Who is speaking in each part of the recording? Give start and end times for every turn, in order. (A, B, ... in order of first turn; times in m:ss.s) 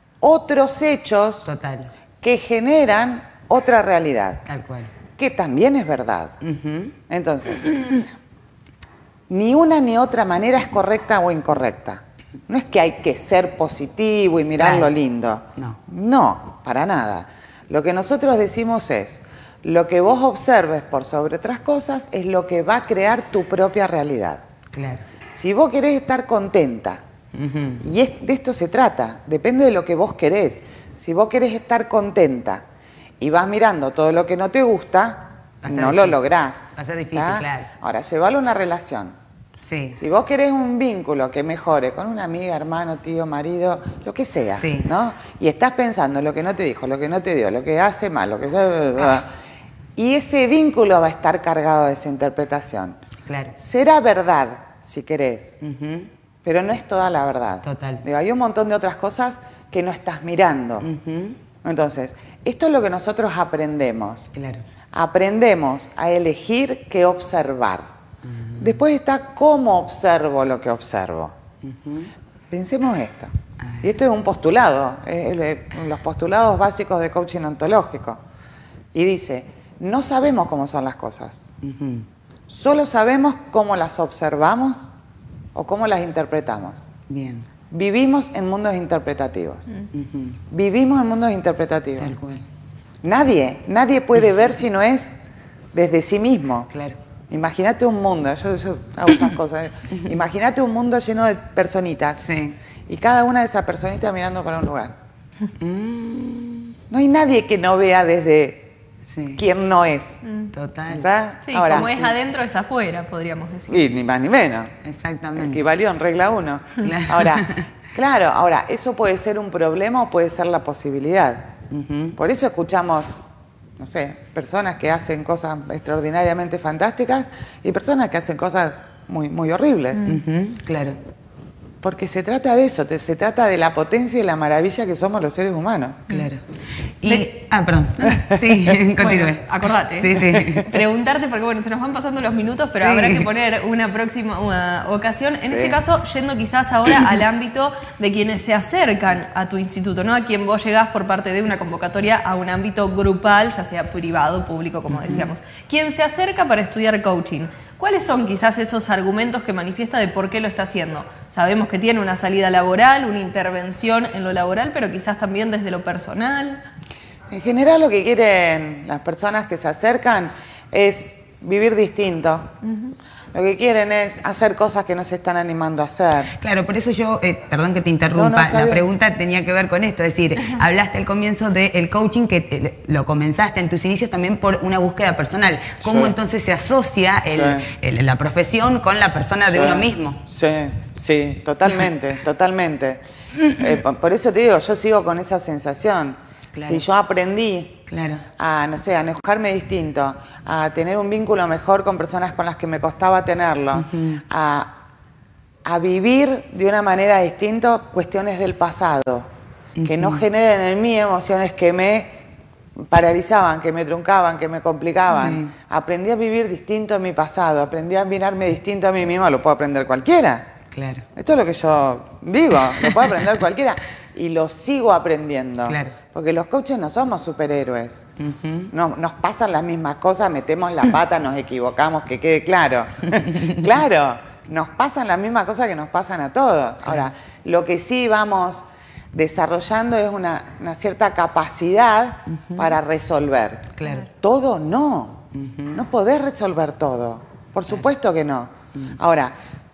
0:00.2-0:01.5 A
0:01.5-0:01.9 B
0:02.2-0:04.4 A
0:04.5-0:04.9 B
0:05.2-0:06.4 A
0:06.4-0:07.0 B
0:07.1-0:08.1 A
0:09.3-0:24.4 A
0:14.6-0:14.9 B
0:24.7-0:25.0 B
0:25.4-0:27.0 A
0:27.3-0:27.8 B
0:27.8-0:32.6 A
0:33.2-0:39.2 A
0:35.6-0:36.2 B
0:36.8-0:37.7 B
0:39.6-0:40.0 B
0:40.0-0:49.3 A
0:44.6-0:44.9 B
0:50.0-0:53.0 A
0:53.3-0:53.6 B
0:53.6-0:55.6 A
0:55.6-0:56.1 B
0:56.4-1:00.9 A
0:57.6-0:58.0 B
1:00.8-1:01.4 B
1:01.6-1:04.3 A
1:04.3-1:04.6 B
1:04.9-1:07.9 A
1:08.3-1:08.6 B
1:08.6-1:11.3 A
1:11.6-1:12.1 B
1:12.5-1:18.2 A
1:18.9-1:21.4 A
1:21.6-1:22.1 B
1:22.5-1:24.9 A
1:25.6-1:26.8 A
1:27.1-1:27.5 B
1:27.7-1:29.7 A
1:29.9-1:30.4 B
1:30.5-1:32.1 A
1:32.0-1:32.4 B
1:33.0-1:35.2 A
1:35.7-1:36.7 A
1:36.7-1:37.0 B
1:37.3-1:42.3 A
1:42.2-1:42.6 B
1:42.9-1:45.0 A
1:45.6-1:46.8 B
1:46.9-1:48.7 A
1:49.1-1:49.4 B
1:49.4-1:50.2 A
1:50.2-1:50.5 C
1:50.5-1:51.1 B
1:50.9-1:52.1 A
1:51.5-1:53.8 C
1:53.7-1:54.8 A
1:54.8-1:55.7 B
1:55.4-2:01.5 A
1:56.8-1:57.7 B
2:01.7-2:02.2 B
2:02.2-2:03.2 A
2:03.8-2:10.1 A
2:10.0-2:11.0 B
2:11.8-2:16.1 A
2:16.1-2:16.4 B
2:17.0-2:19.4 B
2:18.0-2:18.6 A
2:19.0-2:46.6 C
2:20.0-2:20.8 B
2:22.8-2:23.3 B
2:25.5-2:25.8 A
2:47.3-2:52.5 A
2:53.3-2:56.3 A
2:56.4-3:10.2 B
2:58.1-2:58.9 A
3:05.8-3:06.1 A
3:07.3-3:07.7 A
3:09.5-3:17.8 A
3:16.5-3:16.8 B
3:17.9-3:18.2 B
3:18.4-3:24.8 A
3:23.8-3:24.2 B
3:25.6-3:29.3 A
3:29.8-3:30.2 B
3:29.8-3:32.2 A
3:32.8-3:40.5 A
3:35.2-3:35.5 B
3:40.7-3:41.1 B
3:41.2-3:48.1 A
3:45.7-3:46.0 B
3:48.2-3:48.7 B
3:48.7-4:09.3 A
4:02.5-4:02.7 B
4:03.8-4:04.0 B
4:05.3-4:05.8 B